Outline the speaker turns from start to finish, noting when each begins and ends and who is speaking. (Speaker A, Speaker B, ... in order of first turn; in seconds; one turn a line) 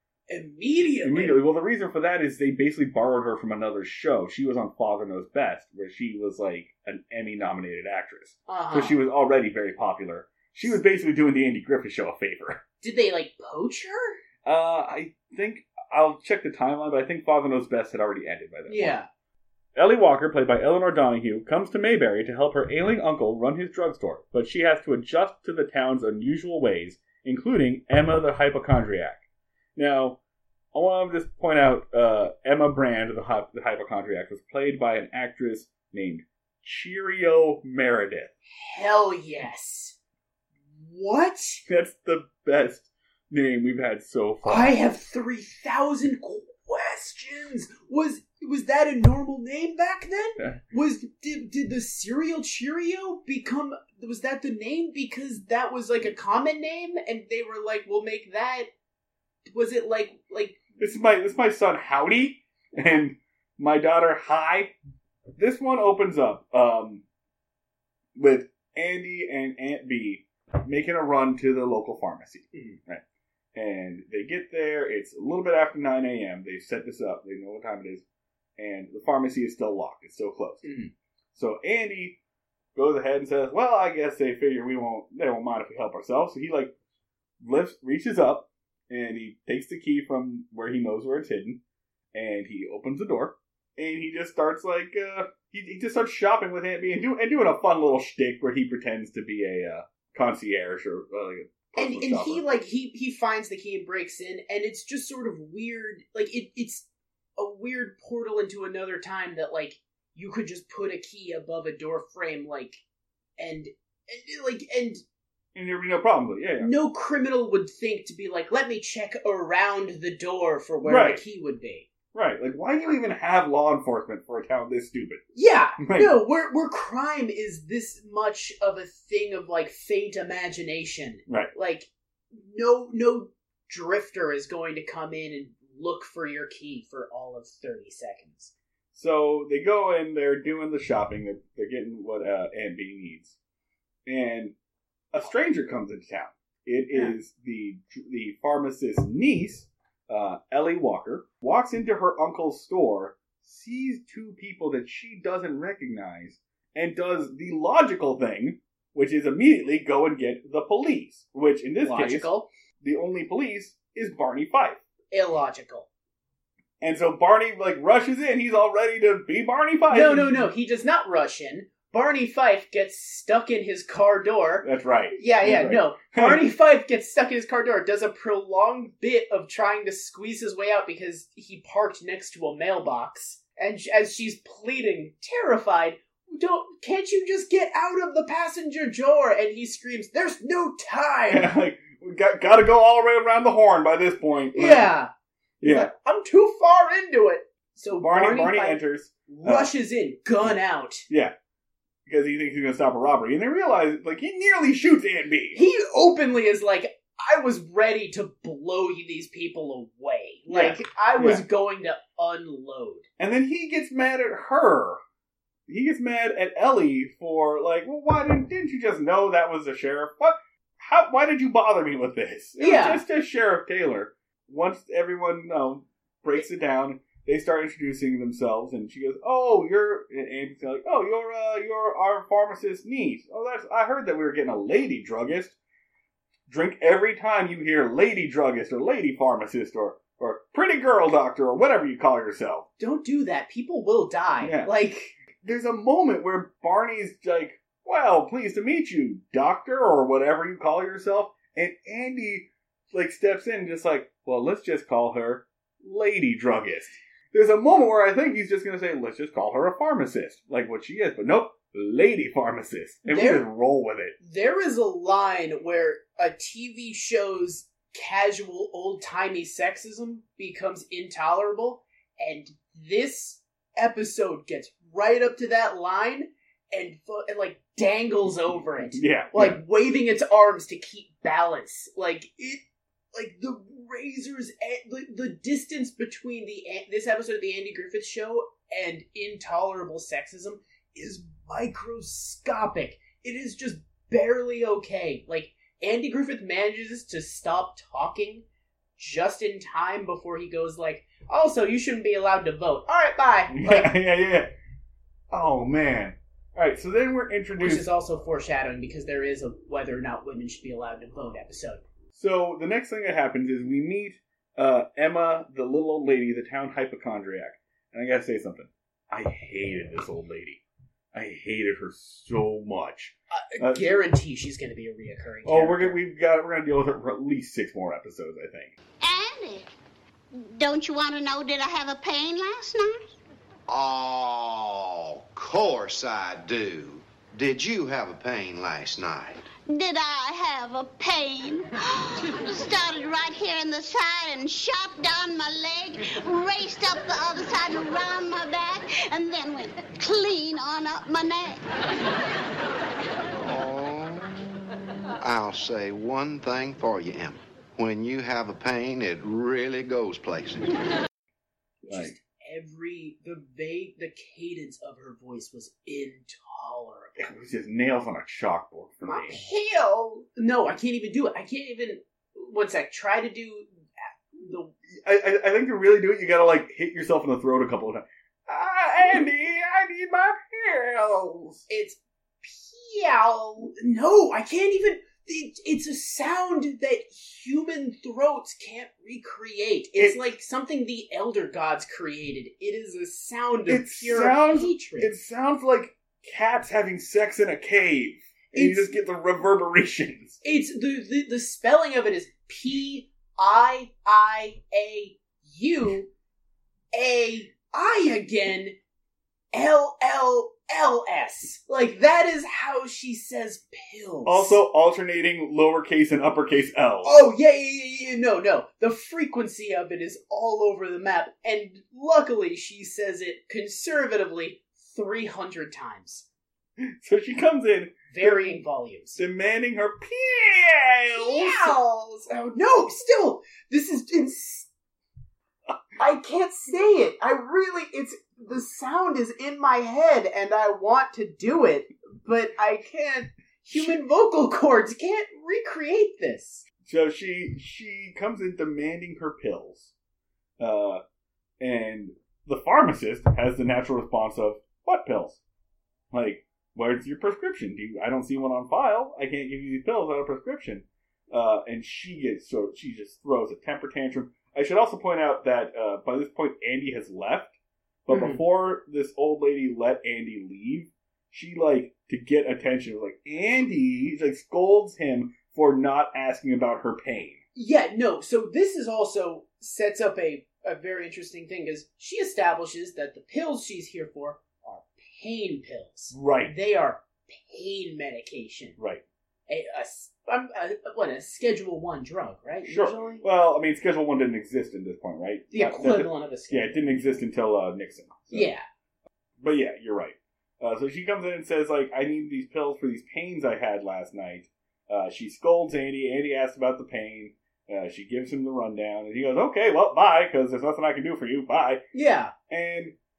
Speaker A: 0.3-1.4
Speaker B: 1.0-12.6
Speaker A: 8.5-9.0
Speaker A: 12.8-14.2
Speaker B: 14.4-18.9
Speaker A: 18.7-19.1
Speaker B: 19.8-29.2
Speaker B: 29.8-30.2
Speaker B: 30.7-38.3
Speaker A: 38.5-40.0
Speaker A: 40.8-41.6
Speaker B: 41.7-44.8
Speaker A: 44.5-58.7
Speaker A: 59.5-60.6
Speaker B: 60.8-64.8
Speaker B: 65.4-67.0
Speaker B: 68.2-73.0
Speaker A: 72.5-72.8
Speaker B: 73.5-78.0
Speaker B: 78.6-80.7
Speaker A: 80.6-80.9
Speaker B: 81.3-82.2
Speaker B: 82.8-86.7
Speaker B: 87.4-91.6
Speaker B: 92.1-102.4
Speaker A: 101.8-106.9
Speaker A: 107.4-112.8
Speaker A: 113.4-115.0
Speaker B: 115.5-116.7
Speaker A: 116.6-121.9
Speaker B: 120.8-121.2
Speaker B: 122.1-125.2
Speaker A: 125.3-138.5
Speaker B: 125.8-126.2
Speaker B: 131.3-131.5
Speaker B: 138.9-143.4
Speaker B: 144.1-144.5
Speaker B: 145.1-162.3
Speaker A: 161.8-162.5
Speaker B: 162.8-164.8
Speaker A: 165.1-165.9
Speaker B: 166.8-170.5
Speaker A: 169.9-191.6
Speaker B: 174.6-176.4
Speaker B: 191.3-194.9
Speaker A: 194.5-195.1
Speaker B: 195.6-195.9
Speaker A: 195.6-201.1
Speaker B: 198.0-199.7
Speaker B: 202.1-205.6
Speaker A: 205.5-213.1
Speaker B: 210.5-211.4
Speaker B: 213.2-215.0
Speaker B: 215.7-235.6
Speaker A: 222.6-223.0
Speaker B: 236.5-242.7
Speaker A: 242.8-245.2
Speaker B: 244.4-244.7
Speaker B: 245.3-264.1
Speaker A: 263.1-263.4
Speaker A: 264.2-298.4
Speaker B: 278.9-279.6
Speaker A: 299.0-303.9
Speaker B: 303.5-304.5
Speaker B: 305.3-307.9
Speaker A: 307.6-311.8
Speaker B: 312.1-320.6
Speaker B: 321.1-323.9
Speaker A: 323.3-326.0
Speaker B: 325.4-328.7
Speaker C: 329.0-329.7
Speaker C: 330.3-333.0
Speaker D: 333.7-339.5
Speaker C: 339.7-351.6
Speaker D: 353.4-354.5
Speaker D: 355.2-360.6
Speaker A: 361.8-367.3
Speaker B: 361.9-362.2
Speaker B: 367.2-369.4
Speaker A: 369.1-373.7
Speaker A: 374.3-374.7
Speaker B: 374.9-381.6
Speaker A: 381.7-395.1
Speaker B: 390.0-390.3
Speaker B: 393.7-400.4
Speaker A: 398.5-399.0
Speaker A: 400.4-406.1
Speaker A: 406.9-408.8
Speaker A: 409.5-414.6
Speaker B: 414.2-417.2
Speaker A: 417.0-426.3
Speaker B: 426.8-428.6
Speaker A: 428.1-429.2
Speaker B: 429.2-431.8
Speaker A: 431.1-434.7
Speaker A: 436.0-446.6
Speaker B: 446.8-449.9
Speaker B: 450.6-451.0
Speaker B: 451.6-455.4
Speaker B: 456.1-467.6
Speaker B: 468.1-477.4
Speaker A: 468.1-468.4
Speaker A: 477.6-488.8
Speaker B: 486.1-486.6
Speaker A: 489.5-493.2
Speaker B: 492.7-498.5
Speaker A: 495.5-497.2
Speaker A: 498.3-498.6
Speaker B: 499.4-511.8
Speaker A: 511.9-512.3
Speaker B: 512.5-512.9